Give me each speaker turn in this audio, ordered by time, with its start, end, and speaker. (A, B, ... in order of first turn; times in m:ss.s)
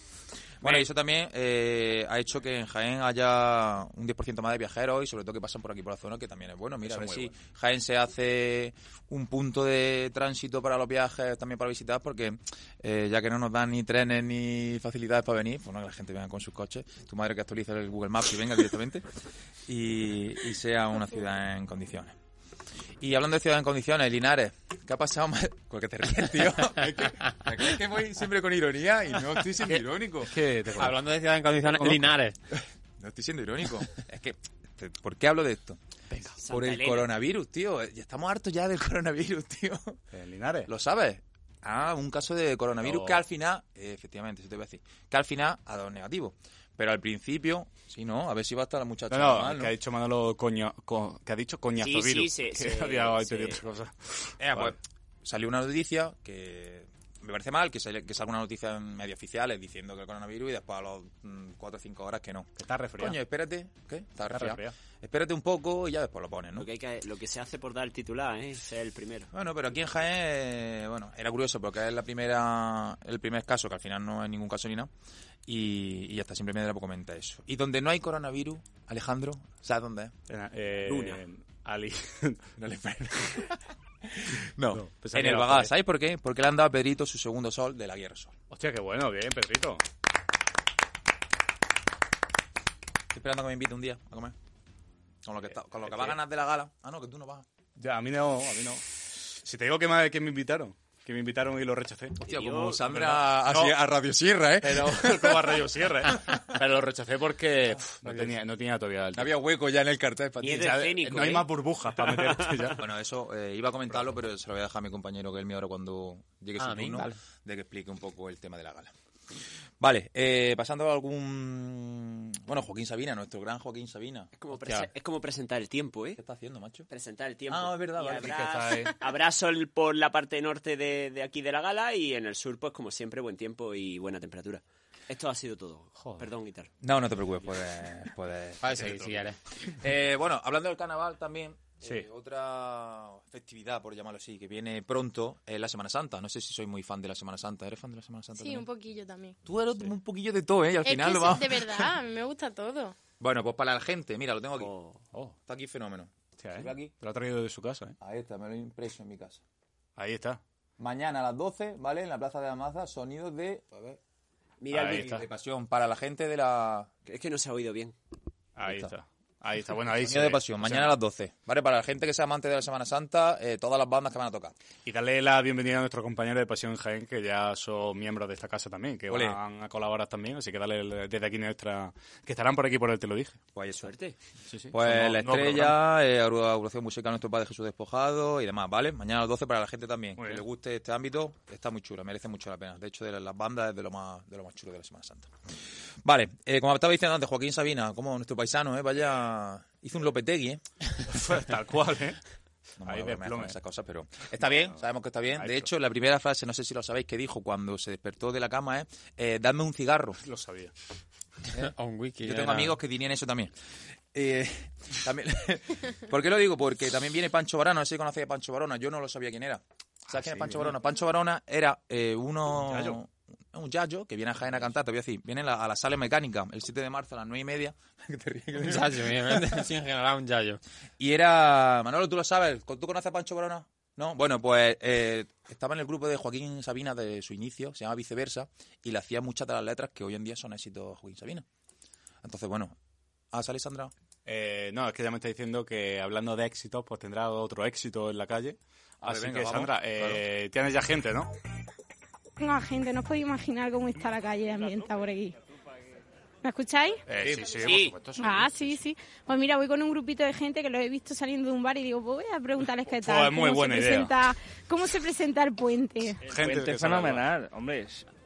0:00.6-0:19.0 A
0:06.8-0:07.3 B
0:19.7-0:22.1 A
0:23.0-0:30.3 A
0:29.6-0:31.1 B
0:30.8-0:32.4 C
0:33.0-0:35.8 A
0:36.1-0:36.4 B
0:36.4-0:37.1 D
0:36.5-0:40.0 A
0:40.1-0:40.7 B
0:40.7-0:49.7 A
0:42.8-0:43.2 B
0:49.1-0:54.8 B
0:51.8-0:53.6 D
0:54.4-1:06.7 A
1:02.6-1:03.2 B
1:04.3-1:04.7 B
1:06.6-1:09.3 D
1:09.3-1:14.9 A
1:15.5-1:20.1 A
1:20.3-1:22.5 B
1:22.6-1:28.3 A
1:24.7-1:25.7 B
1:28.5-1:29.8 B
1:33.1-1:34.4 A
1:35.2-1:37.5 A
1:35.8-1:36.2 B
1:37.8-1:42.2 B
1:42.2-1:45.6 A
1:42.2-1:42.8 D
1:42.9-1:43.8 B
1:44.6-1:49.3 B
1:49.1-1:50.8 A
1:50.4-1:51.5 D
1:50.5-1:52.8 B
1:52.1-1:52.7 D
1:52.8-1:58.9 A
1:56.6-1:57.2 C
1:59.8-2:04.3 A
2:04.4-2:06.2 D
2:06.2-2:06.9 A
2:06.9-2:16.7 D
2:07.5-2:08.4 A
2:08.2-2:08.9 B
2:16.0-2:16.2 B
2:16.8-2:18.6 A
2:18.6-2:19.4 C
2:18.7-2:19.2 B
2:19.7-2:28.7 A
2:28.4-2:29.4 E
2:29.4-2:31.9 A
2:30.8-2:33.0 E
2:33.2-2:34.7 A
2:34.6-2:35.0 D
2:35.5-2:36.9 A
2:36.4-2:38.0 B
2:38.0-2:39.4 A
2:40.0-2:40.4 B
2:40.8-2:44.0 A
2:44.6-2:45.2 D
2:44.7-2:45.2 B
2:44.7-2:46.9 A
2:47.1-2:48.0 D
2:48.6-2:50.9 B
2:48.6-2:48.9 A
2:49.9-2:54.5 A
2:54.8-3:03.4 B
2:59.1-2:59.4 A
3:03.6-3:03.9 A
3:03.8-3:04.2 D
3:04.5-3:05.8 B
3:04.7-3:15.3 A
3:10.2-3:10.4 B
3:16.0-3:20.6 A
3:21.1-3:22.2 B
3:22.8-3:30.2 A
3:22.8-3:23.6 B
3:24.4-3:24.8 B
3:25.4-3:25.7 B
3:30.2-3:30.7 B
3:31.6-3:32.8 C
3:32.2-3:33.5 A
3:34.1-3:49.6 A
3:40.1-3:40.8 B
3:42.5-3:43.0 B
3:48.6-3:50.6 C
3:51.0-4:01.4 A
4:02.2-4:02.8 A
4:03.3-4:03.9 A
4:04.2-4:11.3 B
4:09.0-4:10.2 A
4:12.4-4:15.4 F
4:14.5-4:15.0 G
4:16.4-4:17.0 F
4:17.1-4:18.8 B
4:17.2-4:17.5 A
4:17.6-4:18.0 D
4:18.2-4:26.2 F
4:22.8-4:24.1 B
4:26.2-4:27.3 B
4:26.3-4:28.1 G